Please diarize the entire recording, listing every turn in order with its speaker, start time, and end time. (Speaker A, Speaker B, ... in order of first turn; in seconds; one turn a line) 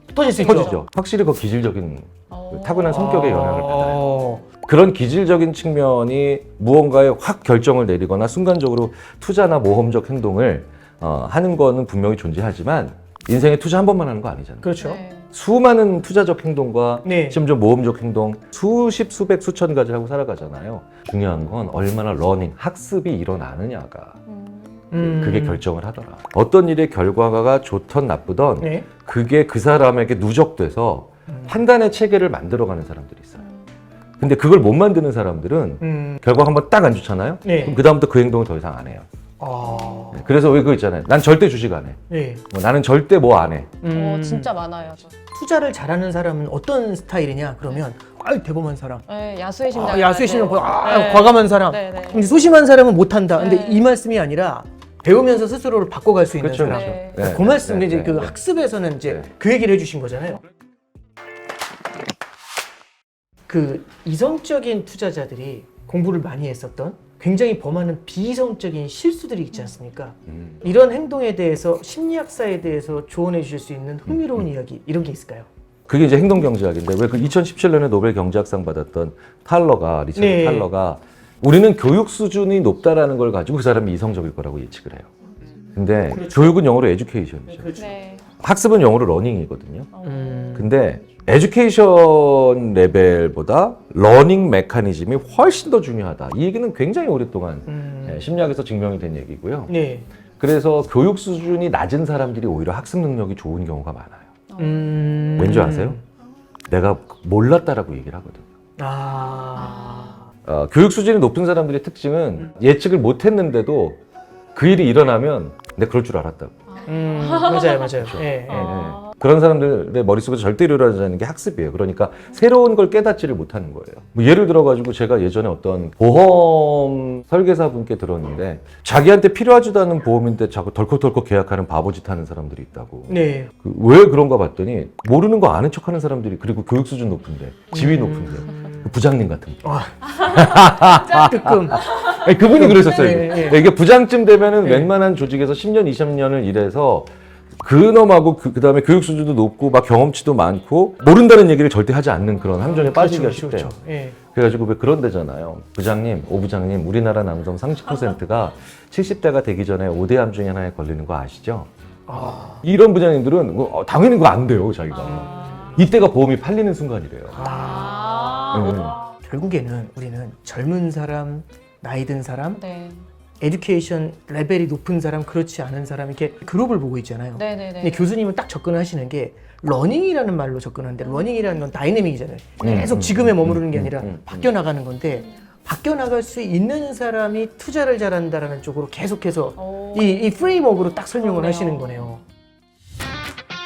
Speaker A: 0.1-0.8
Speaker B: 0.3-0.8
Speaker C: 0.4-14.8
Speaker B: 2.3-3.2
Speaker A: 2.9-4.4
Speaker A: 14.6-15.0
Speaker B: 14.8-15.2
Speaker C: 15.3-24.2
Speaker A: 17.0-17.4
Speaker B: 24.3-24.9
Speaker A: 24.9-25.6
Speaker C: 24.9-33.4
Speaker A: 28.6-28.9
Speaker C: 34.2-39.0
Speaker A: 35.8-36.2
Speaker A: 37.4-37.8
Speaker A: 39.4-40.3
Speaker B: 39.6-40.1
Speaker C: 40.1-43.8
Speaker A: 42.1-42.4
Speaker A: 43.8-44.5
Speaker B: 43.9-45.1
Speaker A: 45.3-49.0
Speaker B: 49.1-52.3
Speaker A: 49.7-60.4
Speaker B: 53.4-53.8
Speaker C: 56.4-58.3
Speaker B: 56.6-57.2
Speaker A: 63.5-75.5
Speaker C: 75.9-85.1
Speaker A: 80.1-80.7
Speaker C: 85.7-87.8
Speaker A: 87.5-87.9
Speaker B: 87.8-88.2
Speaker C: 88.4-89.9
Speaker B: 89.9-90.5
Speaker A: 90.0-90.7
Speaker C: 90.5-99.7
Speaker A: 97.7-98.3
Speaker A: 99.7-100.0
Speaker C: 100.4-104.3
Speaker B: 104.5-105.3
Speaker A: 104.6-106.0
Speaker C: 105.4-106.0
Speaker C: 106.7-108.4
Speaker A: 108.8-110.2
Speaker C: 110.4-114.0
Speaker C: 114.5-116.6
Speaker B: 116.8-117.9
Speaker A: 116.8-118.8
Speaker C: 118.0-147.1
Speaker B: 118.5-119.1
Speaker A: 133.1-133.5
Speaker A: 137.7-138.9
Speaker A: 139.6-143.6
Speaker A: 144.6-144.9
Speaker C: 147.6-161.7
Speaker A: 152.6-154.2
Speaker A: 162.1-162.6
Speaker C: 162.4-167.5
Speaker B: 165.0-165.8
Speaker A: 165.0-165.7
Speaker A: 167.3-172.6
Speaker B: 167.4-169.0
Speaker C: 168.5-169.0
Speaker B: 172.5-173.0
Speaker A: 173.4-192.2
Speaker B: 177.3-178.1
Speaker C: 182.6-184.5
Speaker B: 189.6-190.4
Speaker B: 191.2-192.1